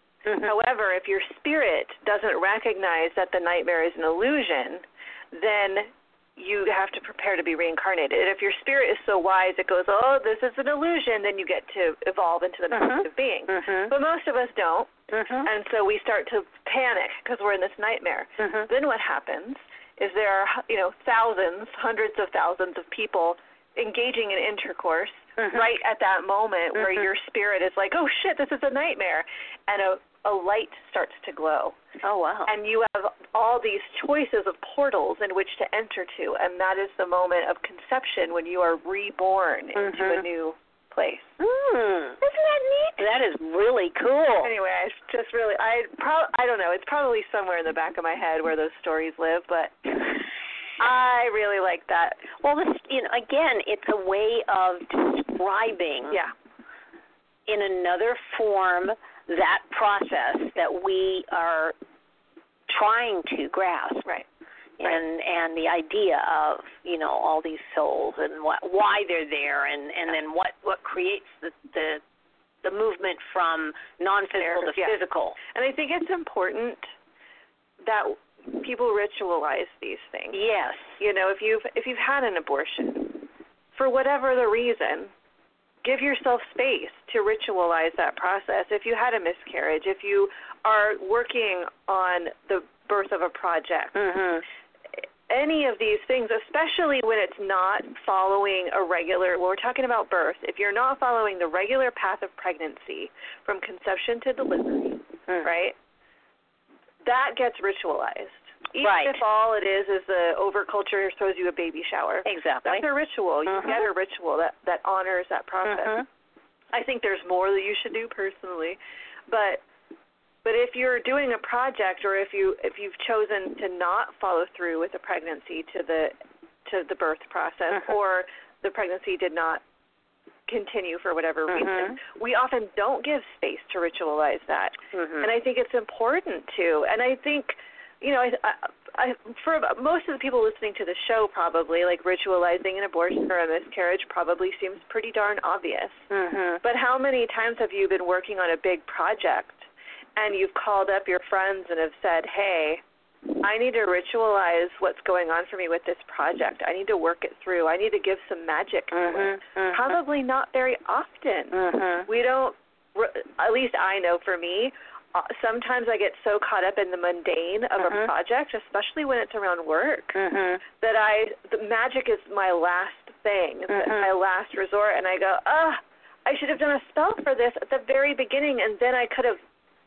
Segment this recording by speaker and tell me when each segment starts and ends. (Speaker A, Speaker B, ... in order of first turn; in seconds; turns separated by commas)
Speaker A: 0.3-0.5, Speaker B: 0.4-31.8, Speaker A: 12.7-13.9, Speaker A: 15.1-15.5, Speaker A: 18.4-18.7, Speaker A: 25.4-25.6, Speaker A: 32.0-32.5, Speaker B: 32.5-41.3, Speaker A: 39.8-40.2, Speaker A: 41.4-42.2, Speaker B: 42.2-43.0, Speaker A: 43.0-44.5, Speaker B: 44.4-50.3, Speaker B: 50.8-52.4, Speaker A: 52.4-56.2, Speaker A: 57.5-61.8, Speaker A: 62.7-64.1, Speaker A: 64.8-72.0, Speaker A: 72.6-75.4, Speaker B: 74.4-75.0, Speaker B: 75.5-76.9, Speaker B: 77.8-80.4, Speaker A: 80.3-81.0, Speaker B: 81.0-85.1, Speaker B: 85.8-94.0, Speaker A: 94.0-94.4, Speaker B: 95.3-105.8, Speaker B: 107.0-116.0, Speaker A: 108.8-109.2, Speaker A: 112.2-112.9, Speaker A: 113.5-113.8, Speaker A: 115.6-116.0, Speaker B: 116.7-119.6, Speaker B: 120.4-126.1, Speaker B: 126.7-129.6, Speaker B: 130.5-146.0, Speaker A: 131.5-132.0, Speaker A: 134.9-135.3, Speaker A: 146.1-146.6, Speaker B: 146.6-152.8, Speaker B: 153.4-161.6, Speaker A: 158.9-160.0, Speaker A: 161.5-162.1, Speaker B: 162.1-170.2, Speaker A: 167.8-168.1, Speaker A: 170.2-170.6, Speaker B: 170.8-179.4, Speaker A: 173.7-174.1